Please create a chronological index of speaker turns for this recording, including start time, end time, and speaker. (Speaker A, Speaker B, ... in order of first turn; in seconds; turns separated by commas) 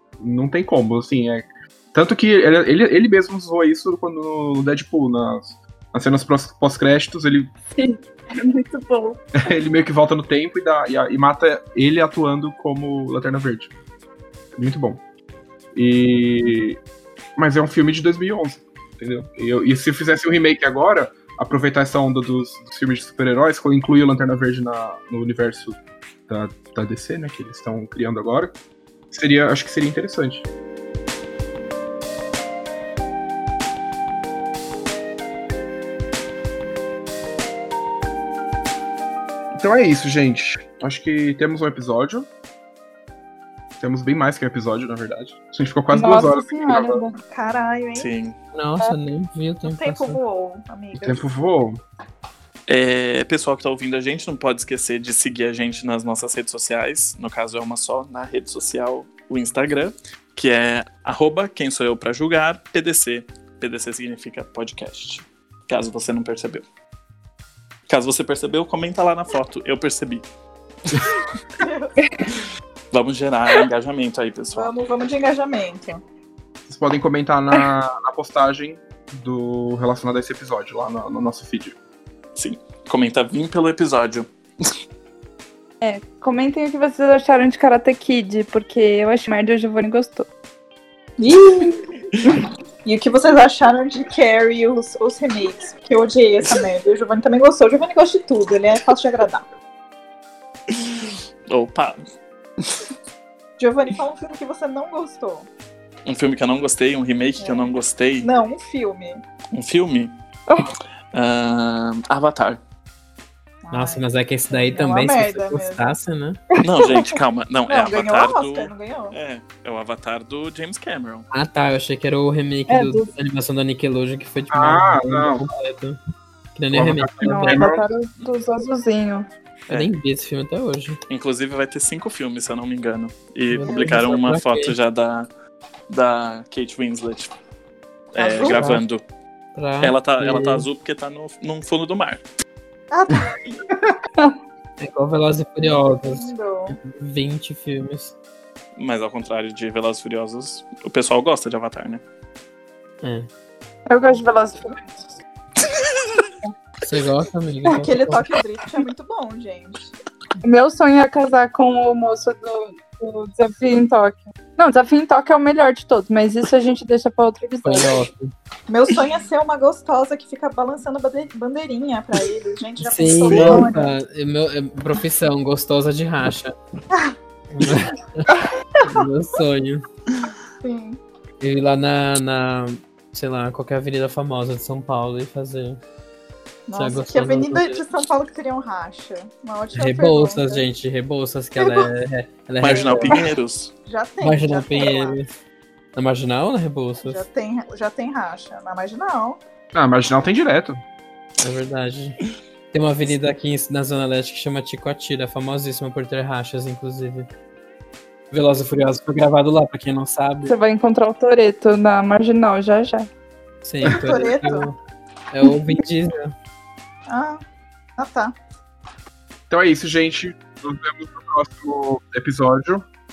Speaker A: 0.2-7.5, Speaker B: 7.7-9.2, Speaker A: 9.4-13.7, Speaker A: 14.6-15.0, Speaker A: 15.8-16.8, Speaker A: 17.4-28.6, Speaker A: 29.1-30.5, Speaker A: 39.6-42.3, Speaker A: 43.8-47.0, Speaker B: 45.9-47.1, Speaker C: 47.2-48.1, Speaker D: 48.0-48.4, Speaker E: 48.5-50.2, Speaker C: 49.6-51.2, Speaker A: 51.0-51.8, Speaker D: 52.7-66.7, Speaker D: 67.9-70.3, Speaker C: 71.6-71.9, Speaker D: 72.9-74.7, Speaker C: 74.5-76.0, Speaker A: 76.7-81.8, Speaker D: 82.4-84.3, Speaker B: 85.8-90.3, Speaker C: 91.2-91.9, Speaker C: 92.8-99.5, Speaker D: 100.7-102.0, Speaker D: 102.6-102.9, Speaker C: 103.6-105.5, Speaker D: 106.1-108.3, Speaker C: 107.4-107.7, Speaker C: 108.2-109.2, Speaker D: 109.5-110.2, Speaker D: 111.1-112.6, Speaker C: 113.6-115.8, Speaker E: 113.7-116.4, Speaker C: 116.5-117.1, Speaker D: 116.6-121.3, Speaker C: 117.7-119.2, Speaker E: 121.3-126.0, Speaker B: 122.7-123.1, Speaker A: 124.5-125.5, Speaker E: 126.5-127.7, Speaker A: 126.7-127.8, Speaker B: 127.2-129.3, Speaker E: 129.7-131.0, Speaker D: 131.1-135.3, Speaker E: 133.5-134.7, Speaker C: 133.6-134.1, Speaker D: 135.9-137.3, Speaker D: 138.2-139.0, Speaker C: 138.2-138.8, Speaker E: 138.5-138.8, Speaker E: 139.6-140.7, Speaker D: 139.8-142.2, Speaker C: 142.9-143.7, Speaker E: 144.8-148.2, Speaker C: 146.1-146.8, Speaker D: 148.8-152.0, Speaker E: 153.0-153.3, Speaker B: 153.9-154.9, Speaker D: 155.7-156.2, Speaker E: 156.8-158.3, Speaker C: 157.7-159.9, Speaker B: 160.4-168.0, Speaker E: 167.6-168.3, Speaker C: 168.7-173.9, Speaker E: 172.8-176.5, Speaker D: 173.2-173.7, Speaker E: 177.5-179.8, Speaker C: 180.6-181.0, Speaker E: 181.4-185.8, Speaker C: 186.7-190.6, Speaker E: 186.8-187.8, Speaker E: 189.8-193.2, Speaker C: 191.6-191.9, Speaker D: 192.6-193.7, Speaker C: 192.7-193.2, Speaker C: 193.9-195.2, Speaker E: 194.2-195.3, Speaker E: 196.0-197.2, Speaker C: 197.0-199.4, Speaker A: 199.7-200.8, Speaker E: 201.4-202.2, Speaker E: 202.7-207.3, Speaker E: 208.3-210.6, Speaker B: 210.5-213.1, Speaker E: 213.6-214.8, Speaker C: 213.8-214.7, Speaker E: 215.3-216.3, Speaker C: 217.1-217.4, Speaker C: 218.0-218.3, Speaker A: 219.5-222.9